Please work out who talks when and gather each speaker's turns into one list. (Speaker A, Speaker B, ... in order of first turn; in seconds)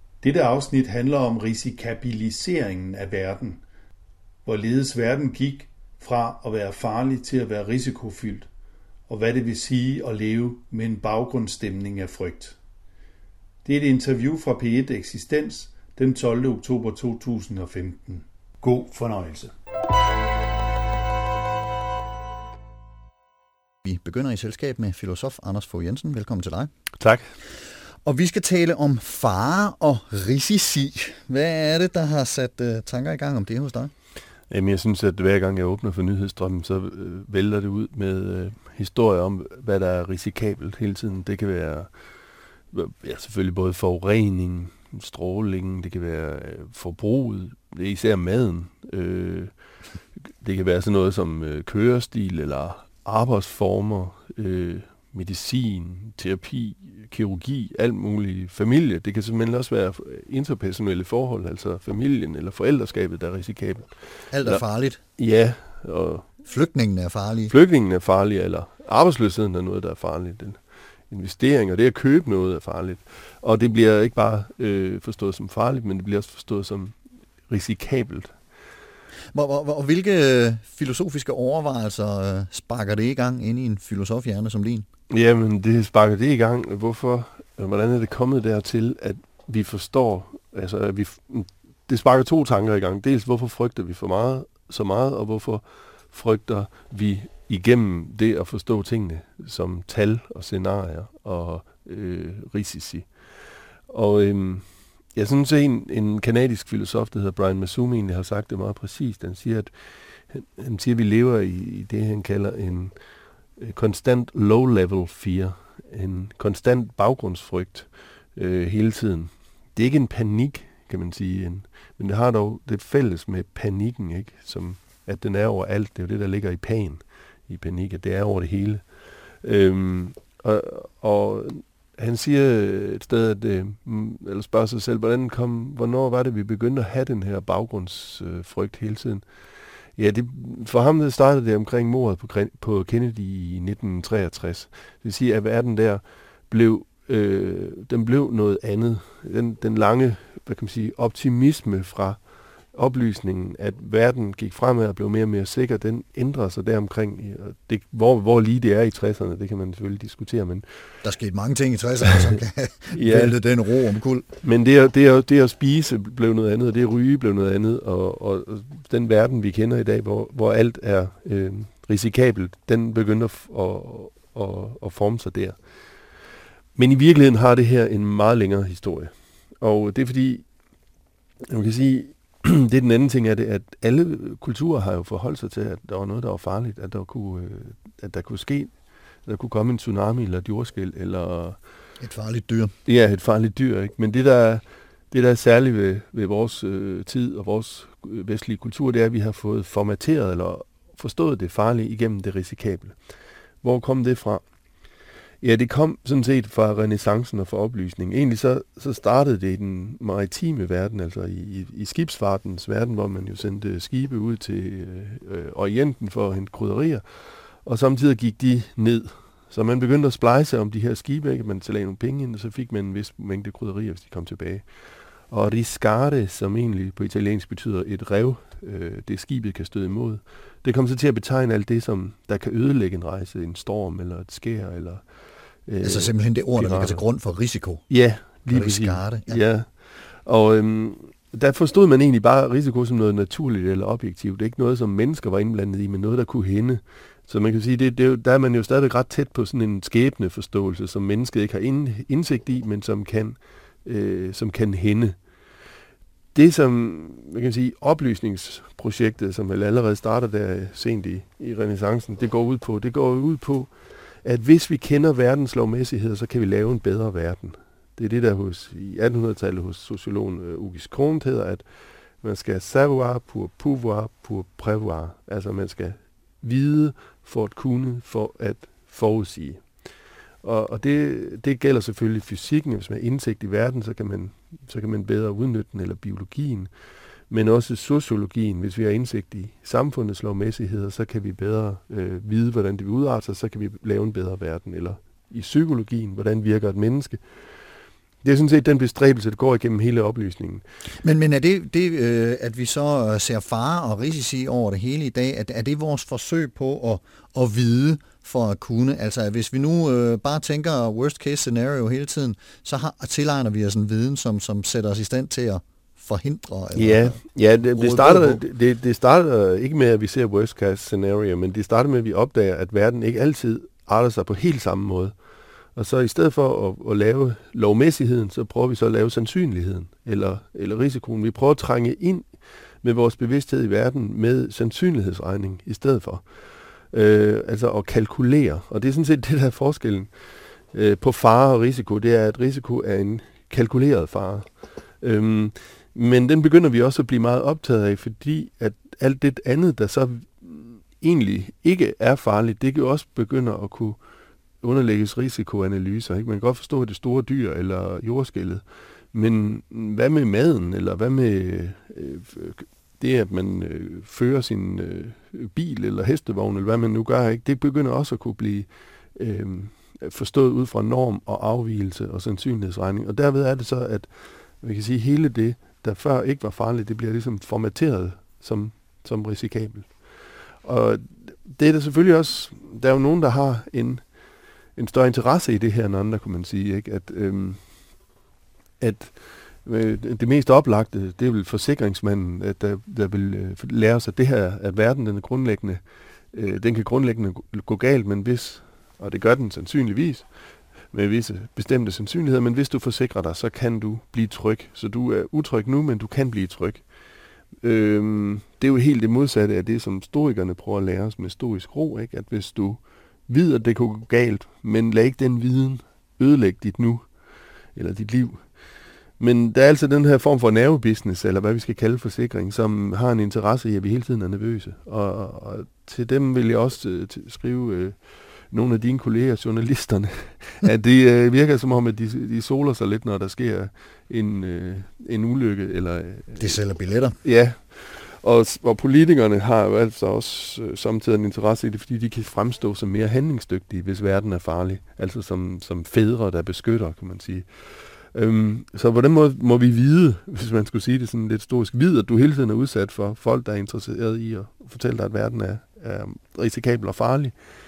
Speaker A: 0.2-3.6, 4.5-8.5, 9.1-12.6, 13.6-19.5
Speaker B: 23.8-26.7, 28.0-33.9, 64.3-65.0, 66.4-67.5, 79.3-84.8, 161.0-164.2, 192.0-192.7, 235.8-237.8, 238.5-239.4, 301.0-317.2, 317.7-318.4, 436.4-437.2
Speaker C: 27.0-27.2, 34.5-41.9, 42.7-49.5, 50.4-63.9, 65.2-66.3, 67.5-70.6, 71.1-76.9, 77.5-78.3, 85.1-103.1, 103.9-109.7, 110.3-112.9, 113.6-128.8, 129.4-139.2, 140.0-152.2, 152.7-160.6, 162.9-163.4, 164.4-175.6, 176.8-180.4, 181.5-188.7, 189.2-191.6, 192.8-202.9, 203.6-204.4, 205.4-217.0, 217.6-224.7, 225.3-235.0, 235.7-237.0, 237.9-239.7, 240.2-255.2, 256.3-263.7, 264.2-271.6, 272.2-279.6, 280.4-286.7, 287.3-297.2, 298.2-300.6, 316.7-325.1, 325.8-332.3, 332.8-336.2, 336.9-340.1, 340.7-344.4, 345.0-354.0, 354.6-358.6, 359.1-374.1, 374.6-379.9, 380.6-384.0, 384.8-387.6, 388.8-395.8, 396.3-400.3, 400.9-406.8, 407.6-417.1, 417.7-418.4, 419.2-428.0, 428.5-436.6, 437.2-447.5, 448.1-457.3